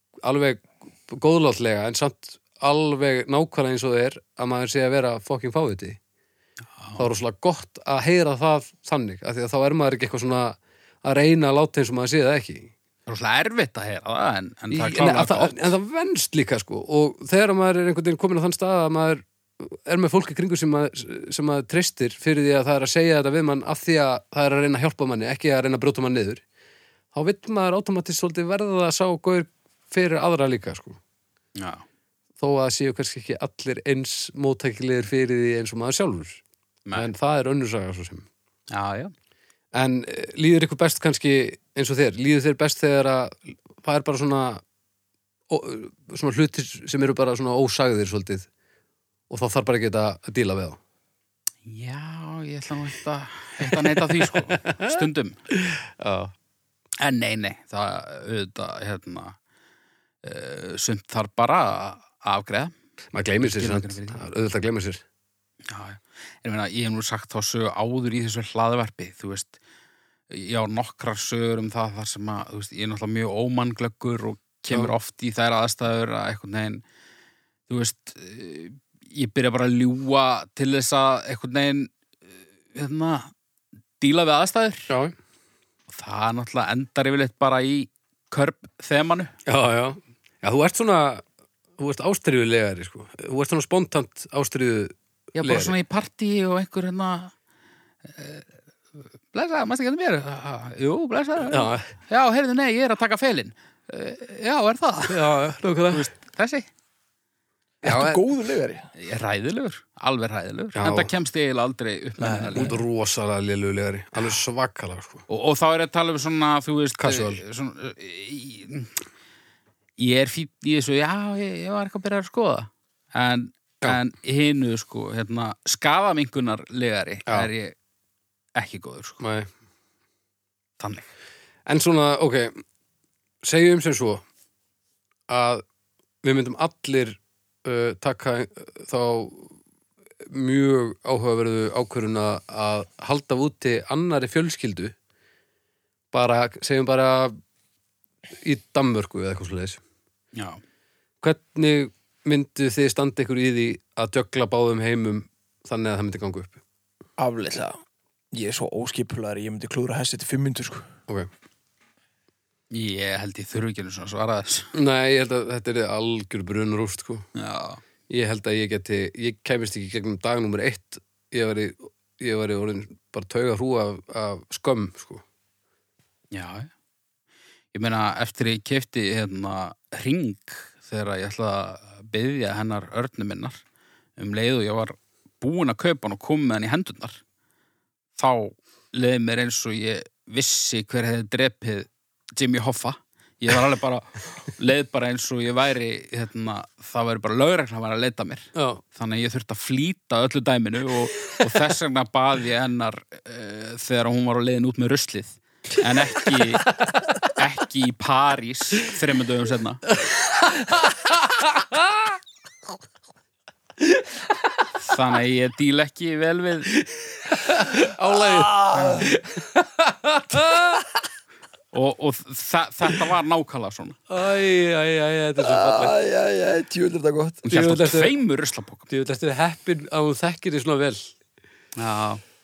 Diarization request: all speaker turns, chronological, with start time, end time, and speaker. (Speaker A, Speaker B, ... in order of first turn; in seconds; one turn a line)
Speaker A: 0.2-6.0
Speaker B: 6.8-7.1
Speaker A: 7.0-12.7
Speaker B: 13.1-15.7
Speaker A: 14.7-26.4
Speaker A: 27.1-31.0
Speaker B: 31.6-31.8
Speaker A: 32.4-36.4
Speaker A: 36.9-38.3
Speaker B: 38.7-39.1
Speaker A: 39.7-44.6
Speaker A: 45.5-48.5
Speaker A: 49.3-50.8
Speaker B: 51.6-55.4
Speaker A: 53.6-56.3
Speaker B: 57.0-59.4
Speaker B: 60.2-62.7
Speaker A: 63.1-65.0
Speaker B: 63.4-64.2
Speaker B: 65.7-69.5
Speaker B: 70.3-76.8
Speaker B: 77.7-81.9
Speaker B: 82.7-83.3
Speaker B: 84.0-84.9
Speaker A: 84.9-85.1
Speaker B: 85.9-89.3
Speaker A: 89.5-91.2
Speaker A: 91.8-95.7
Speaker B: 95.4-97.3
Speaker B: 98.1-98.5
Speaker B: 99.3-105.2
Speaker A: 101.5-101.9
Speaker A: 105.1-106.0
Speaker B: 105.9-106.7
Speaker C: 107.8-108.9
Speaker A: 107.8-108.2
Speaker B: 109.0-112.7
Speaker A: 110.7-111.1
Speaker C: 112.2-112.7
Speaker A: 112.5-115.2
Speaker B: 115.3-118.9
Speaker A: 117.0-117.4
Speaker B: 120.0-127.7
Speaker B: 128.5-129.2
Speaker A: 129.2-129.5
Speaker B: 130.8-131.1
Speaker A: 131.7-132.6
Speaker A: 133.4-134.2
Speaker A: 135.3-135.6
Speaker A: 136.2-139.5
Speaker A: 140.3-144.9
Speaker A: 146.1-147.4
Speaker A: 148.4-149.8
Speaker A: 151.2-156.6
Speaker C: 157.2-157.8
Speaker C: 158.3-160.9
Speaker B: 162.7-164.7
Speaker A: 164.7-167.2
Speaker B: 167.3-167.8
Speaker A: 168.1-175.2
Speaker B: 176.3-176.7
Speaker B: 177.7-183.6
Speaker B: 184.2-187.2
Speaker B: 188.2-206.7
Speaker A: 198.5-198.8
Speaker B: 207.3-209.8
Speaker A: 210.5-211.8
Speaker B: 214.8-216.7
Speaker A: 217.0-220.9
Speaker C: 218.2-219.1
Speaker B: 218.7-219.1
Speaker B: 221.7-224.0
Speaker A: 224.1-225.9
Speaker C: 225.4-227.4
Speaker B: 227.5-228.9
Speaker A: 227.5-228.1
Speaker A: 228.9-231.1
Speaker B: 231.8-232.2